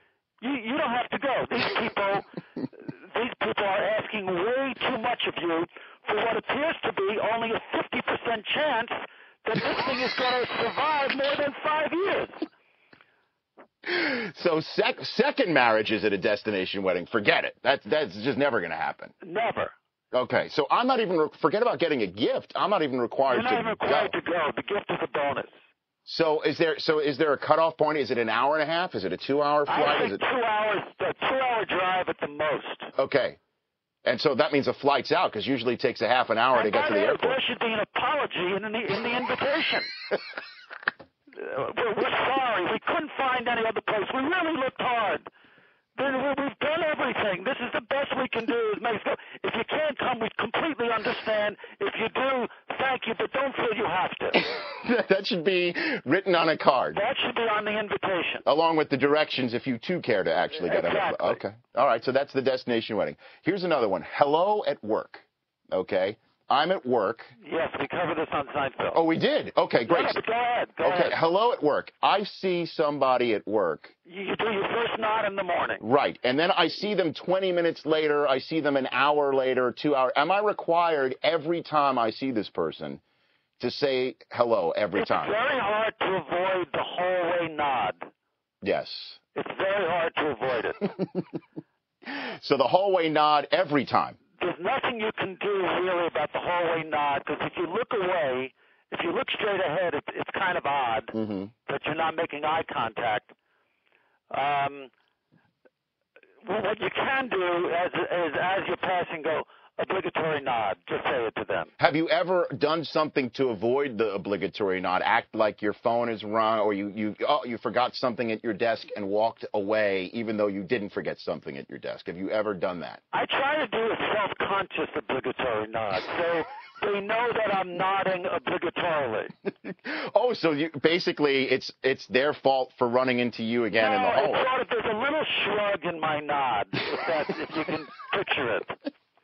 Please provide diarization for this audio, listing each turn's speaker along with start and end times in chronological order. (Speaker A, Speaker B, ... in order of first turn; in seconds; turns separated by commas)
Speaker A: 0.4-2.3, Speaker A: 3.0-12.4, Speaker B: 13.8-19.1, Speaker A: 19.2-19.7, Speaker B: 20.1-24.2, Speaker A: 23.3-25.5, Speaker B: 26.1-30.2, Speaker A: 29.7-32.9, Speaker B: 33.0-33.4, Speaker B: 34.0-37.4, Speaker A: 36.5-39.9, Speaker A: 41.4-45.3, Speaker A: 46.0-54.4, Speaker B: 54.4-57.0, Speaker A: 56.9-58.5, Speaker B: 58.5-67.3, Speaker A: 60.6-61.4, Speaker A: 67.4-69.0, Speaker B: 68.9-70.2, Speaker A: 69.9-71.2, Speaker B: 70.8-74.0, Speaker A: 74.1-75.8, Speaker B: 75.8-83.0, Speaker B: 83.6-85.4, Speaker A: 85.0-88.1, Speaker B: 88.6-89.2, Speaker A: 89.3-90.9, Speaker B: 92.1-94.2, Speaker A: 94.4-101.1, Speaker B: 101.1-101.5, Speaker A: 101.7-103.3, Speaker A: 104.3-104.9, Speaker A: 106.4-111.7, Speaker B: 111.8-123.0, Speaker A: 123.1-129.3, Speaker B: 129.6-134.5, Speaker A: 133.8-138.8